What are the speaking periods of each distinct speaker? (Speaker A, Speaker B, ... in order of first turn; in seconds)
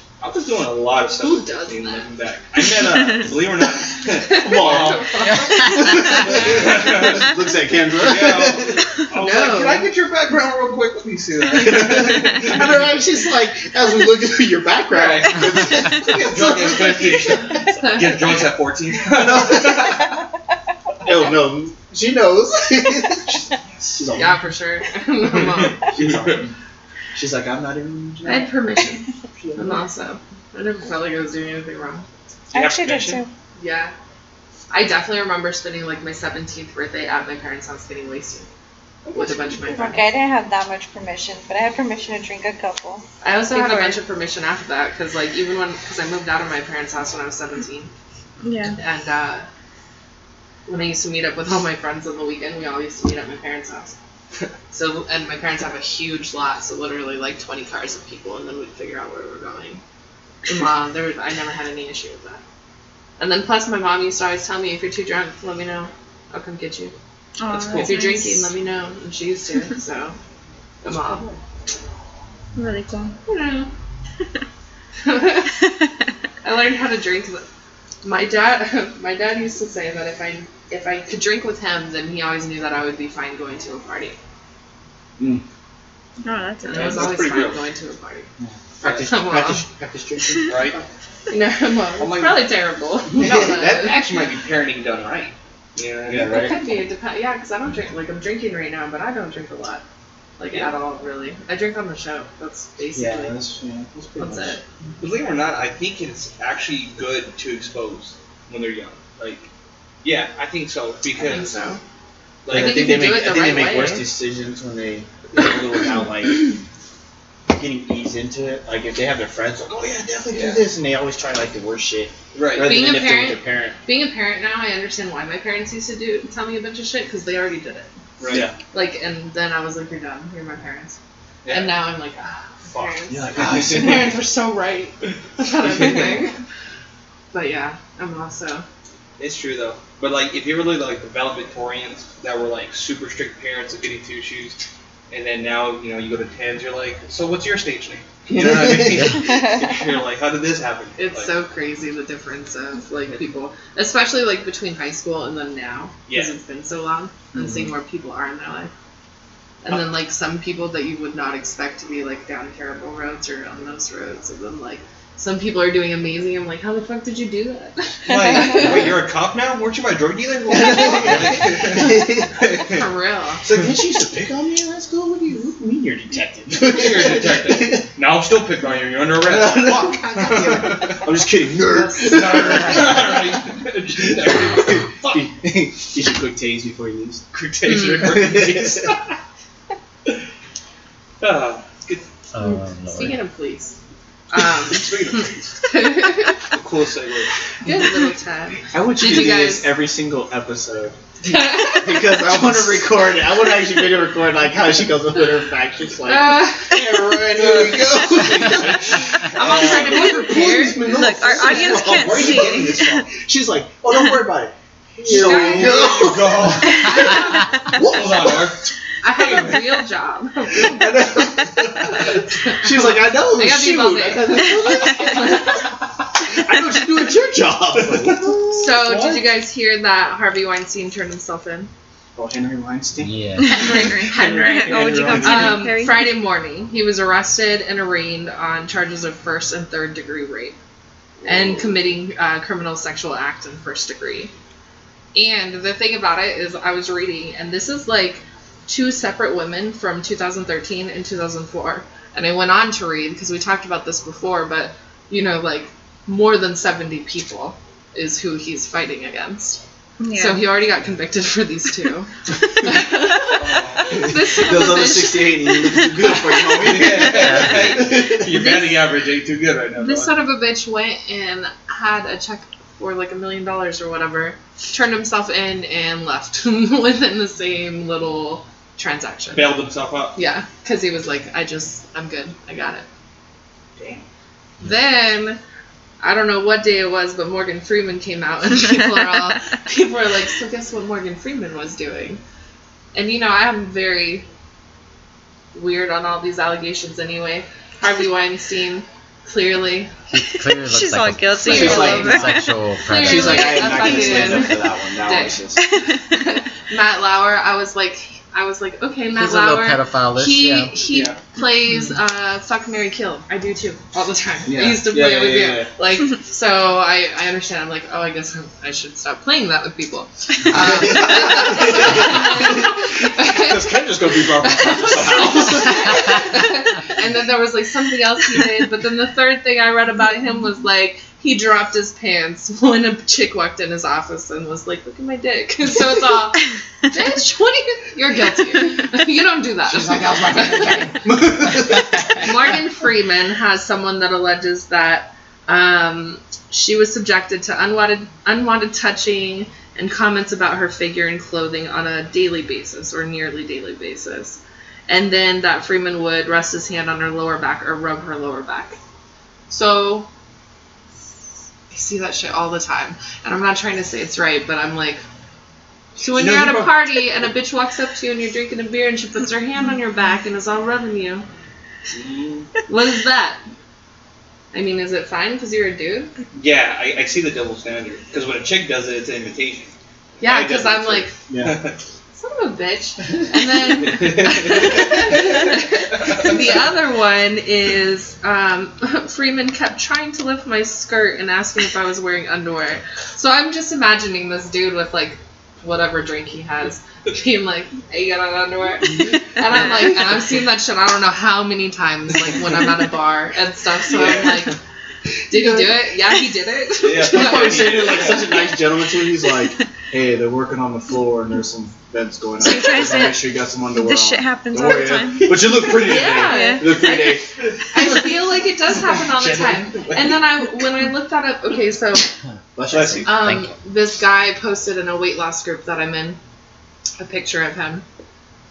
Speaker A: 0.2-7.3, 7.9-12.9, 14.9-20.2, 23.3-23.9, 25.2-26.5, 32.5-33.2, 39.0-39.9, 67.5-68.0, 70.8-71.2, 86.7-87.6, 88.8-89.1, 90.4-90.8, 92.0-92.5, 93.2-96.5, 105.0-109.5, 110.0-111.6, 112.4-114.0, 119.7-120.7, 122.3-123.0, 128.2-128.5, 131.4-131.7, 132.7-134.2, 135.5-136.3, 139.2-144.6, 145.1-151.3, 168.1-172.8, 176.6-181.2, 182.0-185.3, 187.3-189.1, 191.2-192.0, 194.3-195.9, 196.5-197.7, 202.4-202.8, 207.3-210.2, 211.3-213.1, 215.0-219.6, 220.6-222.2, 227.7-229.2, 234.9-235.6, 241.2-241.6, 263.4-264.2, 266.6-270.1, 279.3-280.1, 283.8-284.0, 310.9-311.2, 320.9-322.2, 324.8-325.6, 339.7-342.2, 371.9-372.5, 376.3-381.8, 383.7-386.6, 403.9-404.5, 406.8-408.5, 418.9-420.2, 422.7-423.3
Speaker B: 1.2-2.1, 4.2-6.2, 9.2-9.9, 17.8-18.4, 24.1-25.8, 28.2-29.0, 29.6-32.0, 33.6-33.9, 34.7-38.5, 39.1-40.0, 43.2-47.9, 48.8-49.5, 50.6-54.0, 54.7-59.8, 60.5-62.4, 63.2-66.9, 67.7-70.2, 70.8-71.2, 73.3-73.7, 75.0-75.6, 76.4-77.4, 78.0-84.2, 86.6-88.3, 88.8-89.6, 91.3-94.0, 96.2-99.8, 100.4-103.4, 104.2-104.6, 111.2-111.8, 112.5-114.0, 122.6-127.9, 128.7-131.0, 131.5-136.4, 137.3-138.6, 151.0-158.7, 159.6-168.9, 172.6-173.4, 181.7-182.4, 187.7-188.2, 192.5-193.8, 194.3-196.4, 197.6-199.7, 201.2-202.2, 206.0-207.2, 209.3-211.0, 215.0-217.4, 219.0-221.1, 222.0-225.6, 228.5-231.7, 233.4-240.6, 241.2-244.3, 245.1-259.6, 260.1-266.5, 269.8-279.5, 280.1-282.8, 284.6-285.4, 286.0-292.2, 292.9-294.2, 295.5-299.9, 301.4-302.3, 302.8-305.4, 306.1-341.0, 342.1-358.8, 359.5-360.1, 361.7-365.0, 366.0-371.2, 372.7-373.4, 374.5-376.1, 380.2-381.1, 382.1-404.6, 405.3-408.2, 415.6-417.2, 417.7-422.1, 423.0-426.2, 427.0-427.8
Speaker C: 4.4-8.8, 11.5-17.6, 19.1-20.1, 21.0-23.4, 23.9-24.4, 25.9-26.5, 27.1-28.6, 29.4-29.8, 85.2-85.4, 88.4-90.7, 93.2-93.9, 96.0-96.6, 102.9-104.6, 111.2-111.6, 112.5-116.6, 117.5-123.8, 128.3-128.6, 133.1-134.2, 148.3-149.2, 170.5-172.4, 173.4-177.9, 179.2-183.2, 184.0-188.9, 198.7-200.9, 201.6-216.8, 222.6-225.5, 226.3-228.6, 232.2-235.6, 264.3-268.6, 301.4-302.4, 302.9-305.6, 314.4-315.7, 320.5-326.2, 366.1-367.0, 381.3-381.6, 407.0-417.3, 422.5-423.5
Speaker D: 32.5-33.3, 39.7-44.0, 48.4-48.8, 67.4-68.5, 72.5-73.2, 86.2-87.2, 149.4-149.7, 168.1-168.8, 210.8-213.1, 233.4-236.1, 260.0-260.5, 300.7-302.5, 303.4-304.4, 412.4-417.0
Speaker E: 192.3-193.2, 233.0-233.7, 267.0-267.7, 300.1-303.9, 309.1-310.8